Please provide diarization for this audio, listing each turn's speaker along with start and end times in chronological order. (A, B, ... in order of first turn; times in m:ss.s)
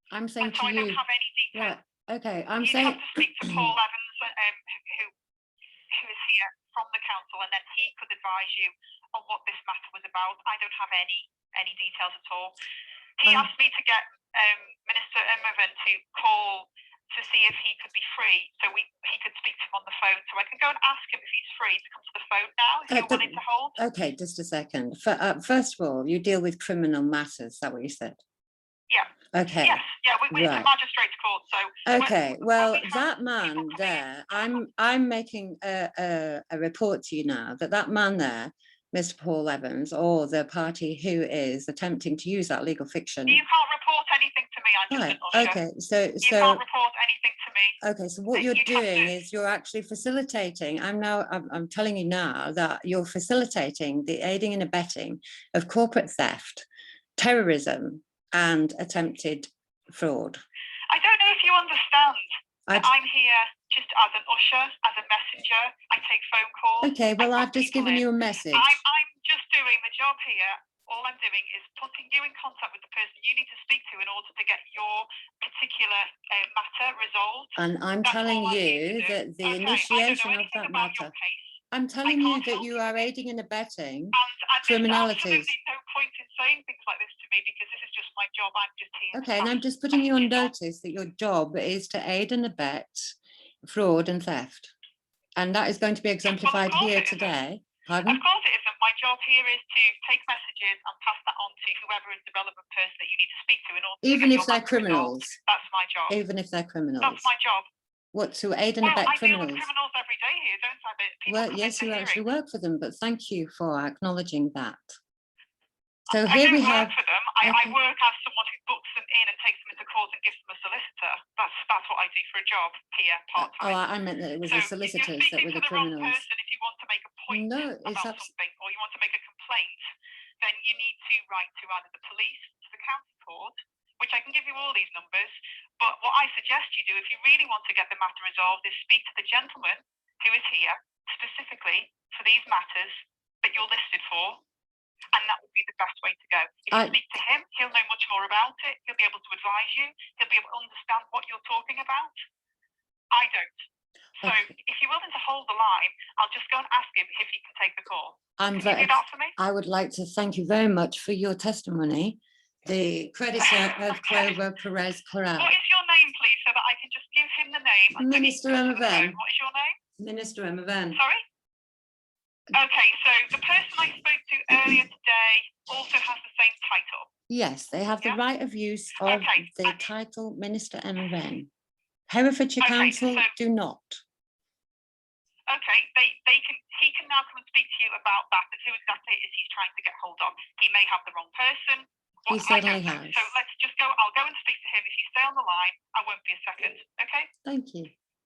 0:00.1-0:01.0 A
0:00.4-0:01.8 B
0:01.5-0:03.7 A
0:02.6-0:05.1 B
0:05.9-0:12.5 B
0:13.2-0:23.8 B
0:22.9-0:28.2 A
0:28.9-0:34.6 B
0:29.3-0:30.7 A
0:31.8-0:43.4 A
0:43.3-0:45.6 B
0:44.9-0:46.6 A
0:46.2-0:47.8 B
0:47.8-0:56.6 A
0:48.3-0:49.1 B
0:57.2-1:00.4 A
1:00.9-1:23.0 B
1:06.8-1:08.8 A
1:17.6-1:21.1 A
1:21.7-1:25.5 A
1:24.1-1:30.5 B
1:29.1-1:34.7 A
1:35.4-1:38.2 A
1:36.3-1:37.3 B
1:38.0-1:46.2 B
1:44.0-1:45.4 A
1:46.1-1:47.3 A
1:47.0-1:47.6 B
1:48.1-1:49.7 A
1:48.8-1:52.3 B
1:51.3-1:54.9 A
1:56.1-1:57.8 A
1:56.1-2:03.8 B
2:03.4-2:06.2 A
2:04.4-2:09.9 B
2:07.3-2:08.2 A
2:10.4-2:24.4 B
2:25.1-2:32.1 B
2:33.1-2:33.5 B
2:34.2-2:39.4 B
2:38.4-2:45.5 A
2:43.5-2:44.4 B
2:45.4-2:49.8 B
2:48.0-2:49.2 A
2:50.0-2:51.0 A
2:50.9-2:51.2 B
2:52.5-2:57.1 B
2:57.3-3:01.5 A
2:59.0-2:59.8 B
3:02.1-3:04.0 A
3:02.6-3:03.3 B
3:05.5-3:17.3 B
3:12.3-3:13.3 A
3:17.4-3:17.9 A